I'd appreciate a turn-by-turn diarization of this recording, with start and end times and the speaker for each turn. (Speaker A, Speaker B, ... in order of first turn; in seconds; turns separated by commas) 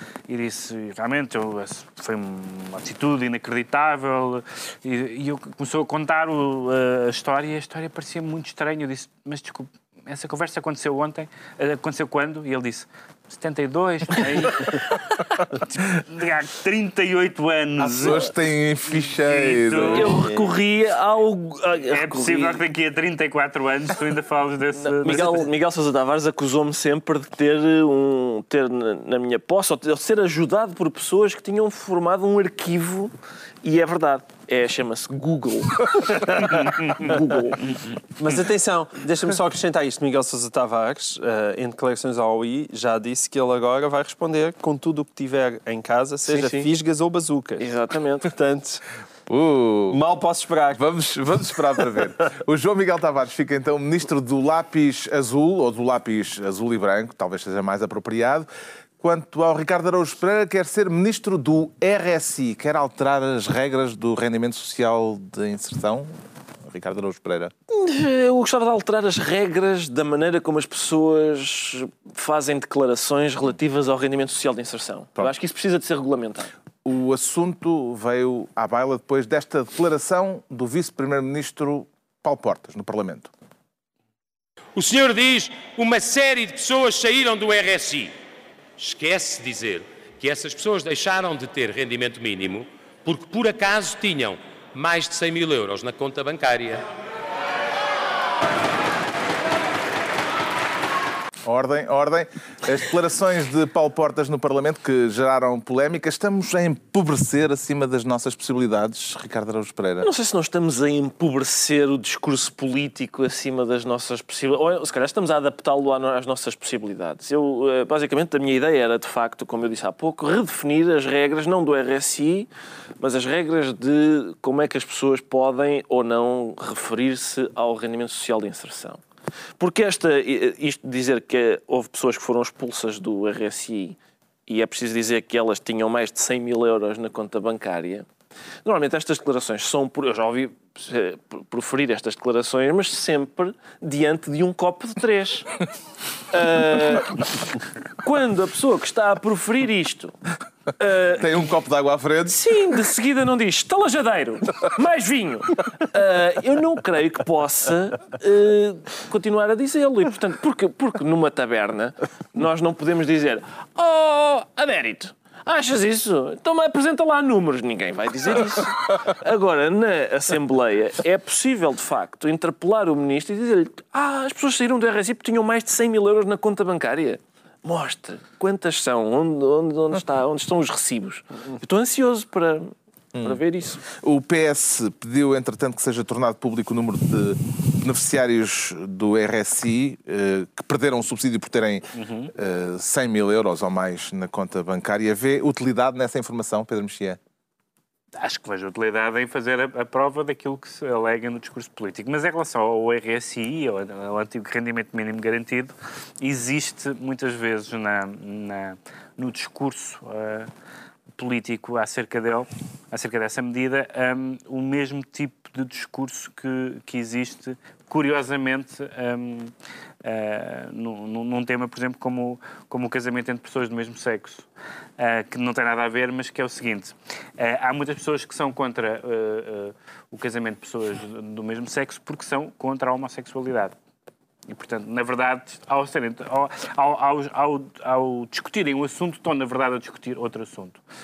Speaker A: 0.3-18.2, Speaker B: 17.8-20.3, Speaker A: 18.9-20.4, Speaker C: 19.9-22.6, Speaker A: 21.9-25.5, Speaker C: 24.8-37.9, Speaker A: 36.4-37.1, Speaker D: 38.2-48.8, Speaker C: 46.3-46.7, Speaker C: 47.6-48.3, Speaker B: 49.3-50.0, Speaker D: 49.9-50.8, Speaker B: 50.7-58.5, Speaker B: 59.0-66.1, Speaker B: 66.6-67.5, Speaker C: 67.7-76.5, Speaker B: 76.8-83.3, Speaker E: 84.8-88.1, Speaker E: 88.8-96.9, Speaker B: 101.5-110.1, Speaker C: 110.0-122.5, Speaker C: 123.0-129.0, Speaker C: 129.6-138.1, Speaker C: 138.6-145.6, Speaker C: 146.3-147.3, Speaker C: 148.0-150.1, Speaker C: 150.8-151.5, Speaker B: 151.2-152.4, Speaker C: 152.3-183.8, Speaker B: 183.2-197.2, Speaker A: 191.9-192.3, Speaker A: 198.2-210.5, Speaker A: 211.2-219.5, Speaker A: 220.0-224.5, Speaker A: 225.0-233.7, Speaker A: 234.5-240.8